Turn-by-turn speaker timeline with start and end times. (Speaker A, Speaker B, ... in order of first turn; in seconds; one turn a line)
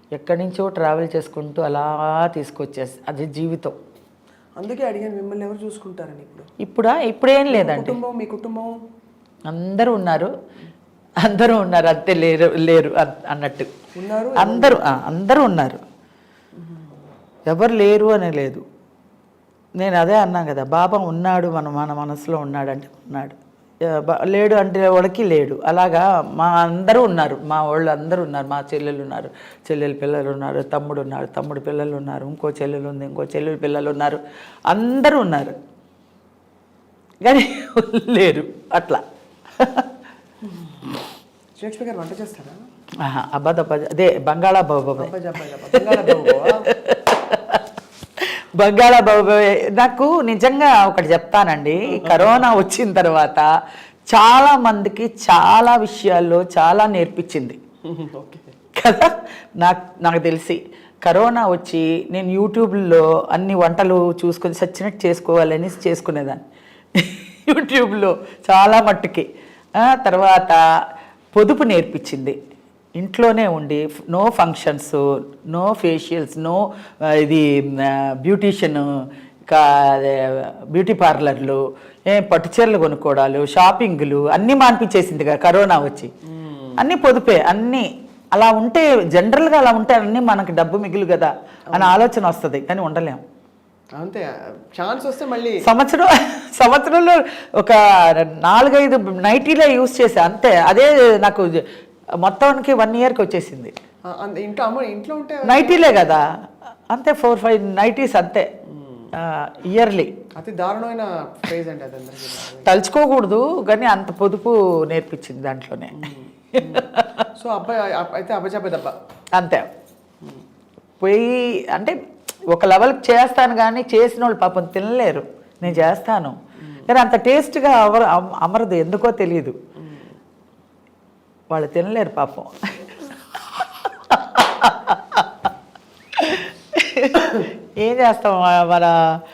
Speaker A: 0.1-3.8
Speaker B: 4.6-6.5
Speaker A: 6.6-8.0
Speaker B: 7.5-8.7
Speaker A: 9.4-10.3
Speaker A: 11.2-13.7
Speaker B: 13.9-15.0
Speaker A: 14.4-15.8
Speaker B: 16.6-16.9
Speaker A: 17.5-18.6
Speaker A: 19.8-35.5
Speaker A: 37.2-39.0
Speaker A: 39.6-39.9
Speaker B: 40.4-41.0
Speaker B: 41.6-42.5
Speaker A: 43.0-45.1
Speaker B: 45.0-46.7
Speaker A: 45.7-53.5
Speaker B: 51.8-52.5
Speaker A: 54.1-57.6
Speaker B: 57.8-58.5
Speaker A: 58.7-70.6
Speaker A: 71.3-72.4
Speaker A: 73.0-86.1
Speaker B: 86.2-86.8
Speaker A: 86.8-93.2
Speaker B: 91.7-92.0
Speaker B: 94.0-95.6
Speaker A: 95.6-101.6
Speaker A: 102.2-103.7
Speaker B: 104.1-106.1
Speaker A: 105.4-106.3
Speaker A: 106.9-108.5
Speaker B: 108.7-109.1
Speaker A: 109.1-110.1
Speaker B: 110.4-112.7
Speaker A: 112.6-117.2
Speaker B: 115.9-118.9
Speaker A: 119.3-119.7
Speaker A: 121.0-122.0
Speaker A: 122.5-129.6
Speaker B: 126.6-126.9
Speaker B: 129.8-130.1
Speaker A: 131.5-132.9
Speaker A: 133.5-135.5
Speaker A: 136.1-139.0